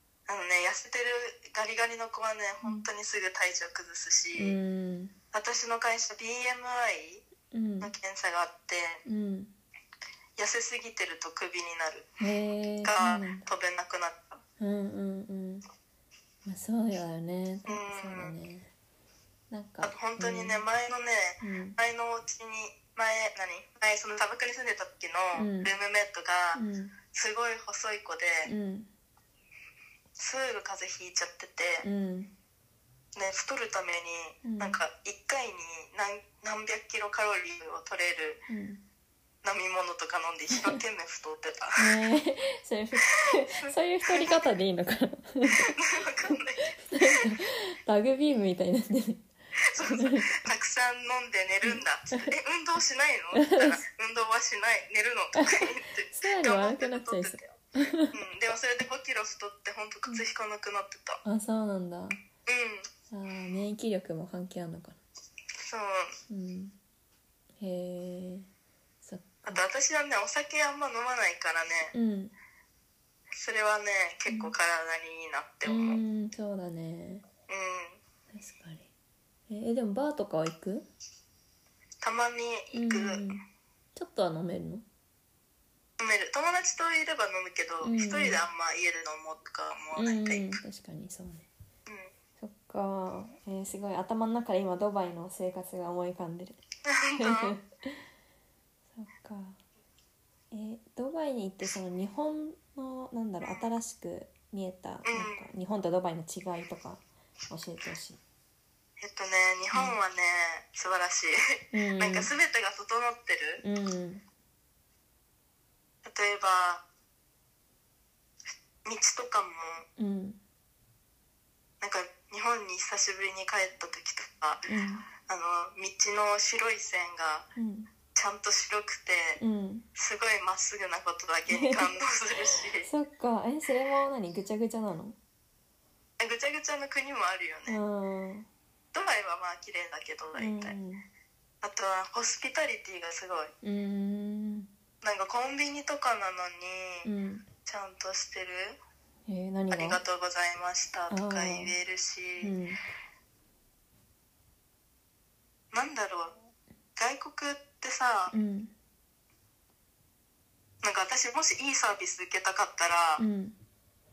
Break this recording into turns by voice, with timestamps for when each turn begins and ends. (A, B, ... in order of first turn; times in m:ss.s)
0:00.3-0:04.6 A
0:04.3-0:05.1 B
0:05.3-0:07.2 A
0:07.5-0:07.9 B
0:07.8-0:09.0 A
0:09.0-0:09.5 B
0:10.4-0:12.1 A
0:12.2-0:13.5 B
0:12.8-0:14.4 A
0:14.6-0:15.6 B
0:16.4-0:18.7 B
0:17.7-0:18.3 A
0:19.5-0:20.6 B
0:19.8-0:26.6 A
0:21.4-0:21.8 B
0:25.3-0:25.7 B
0:26.5-0:26.9 B
0:27.1-0:28.5 A
0:28.4-0:28.9 B
0:30.2-0:31.8 A
0:31.8-0:32.3 B
0:33.2-0:38.4 A
0:34.4-0:34.8 B
0:38.5-0:38.8 B
0:39.4-0:41.9 A
0:41.8-0:45.7 B
0:43.4-0:44.5 A
0:45.5-0:47.3 A
0:46.3-0:50.3 B
0:49.7-0:57.6 A
0:51.6-0:52.3 B
0:53.3-0:53.8 B
0:55.4-0:58.2 B
0:58.1-1:01.2 A
1:01.2-1:02.2 B
1:02.4-1:02.9 A
1:03.1-1:05.0 B
1:05.6-1:06.1 A
1:06.3-1:06.8 B
1:07.6-1:08.5 B
1:09.0-1:09.6 B
1:09.4-1:11.9 A
1:11.9-1:12.3 B
1:13.4-1:16.0 A
1:14.3-1:14.5 B
1:15.6-1:17.2 B
1:17.5-1:18.0 A
1:18.3-1:18.9 B
1:19.5-1:20.9 B
1:22.0-1:23.3 A
1:22.7-1:23.4 B
1:23.9-1:24.8 B
1:26.0-1:30.6 A
1:27.8-1:28.4 B
1:30.0-1:31.5 B
1:32.4-1:36.6 B
1:36.8-1:37.6 A
1:37.2-1:38.0 B
1:38.9-1:39.6 B
1:40.5-1:48.2 B
1:43.4-1:43.7 A
1:45.0-1:45.4 A
1:49.0-1:53.6 A
1:49.7-1:50.0 B
1:51.7-1:52.3 B
1:53.6-1:54.2 B
1:56.0-1:56.8 A
1:58.8-1:59.8 A
2:00.0-2:00.4 B
2:01.8-2:04.6 A
2:04.7-2:05.1 B
2:05.2-2:07.5 A
2:07.6-2:07.9 B
2:08.1-2:09.4 A
2:09.4-2:09.8 B
2:10.0-2:12.9 A
2:11.5-2:11.9 B
2:12.8-2:15.2 B
2:16.2-2:17.8 A
2:17.7-2:18.5 B
2:18.9-2:20.7 A
2:20.4-2:21.0 B
2:21.6-2:23.5 A
2:23.6-2:24.7 B
2:25.0-2:27.1 A
2:27.0-2:27.4 B
2:27.6-2:28.8 A
2:29.3-2:30.0 B
2:29.7-2:32.5 A
2:31.1-2:31.7 B
2:32.4-2:32.8 B
2:35.7-2:36.3 A
2:37.0-2:38.3 A
2:38.3-2:38.7 B
2:40.8-2:43.2 A
2:43.2-2:43.6 B